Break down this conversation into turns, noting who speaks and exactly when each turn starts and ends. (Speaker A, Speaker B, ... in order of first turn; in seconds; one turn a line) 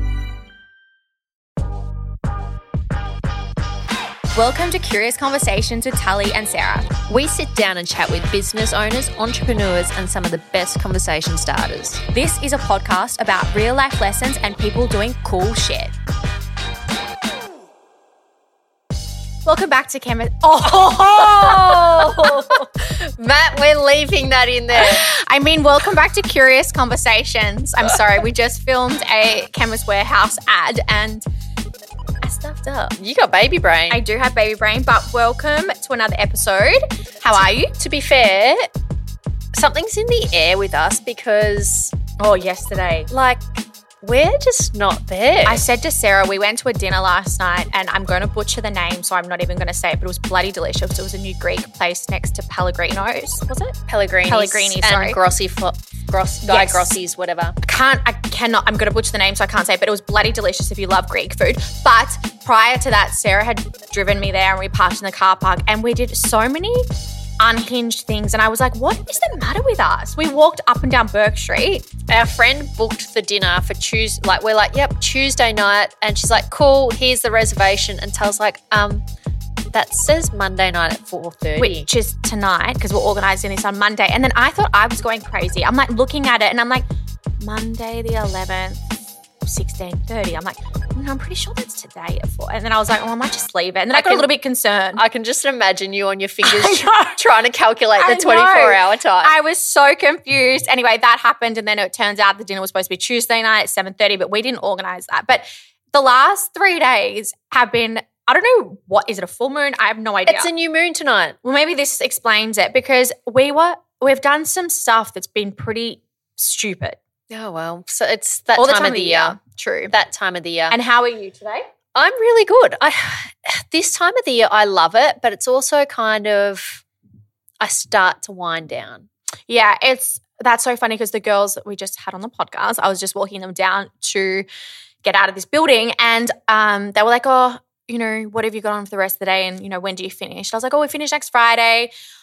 Speaker A: 4.3-6.9
Speaker B: 7.1-12.0
Speaker A: 12.1-15.9
Speaker A: 19.4-22.6
Speaker B: 21.0-25.0
Speaker A: 24.7-31.2
Speaker A: 32.2-33.0
Speaker B: 33.0-34.0
Speaker A: 33.9-37.8
Speaker B: 37.3-38.7
Speaker B: 39.5-41.9
Speaker A: 42.2-43.1
Speaker B: 43.1-45.6
Speaker A: 45.4-55.2
Speaker B: 53.9-57.6
Speaker A: 56.5-57.0
Speaker A: 57.6-66.9
Speaker A: 67.4-71.9
Speaker B: 72.1-79.0
Speaker B: 79.7-81.9
Speaker A: 81.6-86.9
Speaker A: 87.4-95.0
Speaker B: 93.9-94.3
Speaker B: 95.0-99.4
Speaker A: 96.4-97.2
Speaker A: 98.0-110.5
Speaker B: 110.3-111.4
Speaker A: 111.4-117.0
Speaker B: 117.3-119.4
Speaker A: 118.5-119.9
Speaker B: 119.9-120.8
Speaker A: 120.7-121.7
Speaker B: 121.9-126.8
Speaker B: 127.6-129.1
Speaker A: 129.5-134.4
Speaker A: 135.0-141.9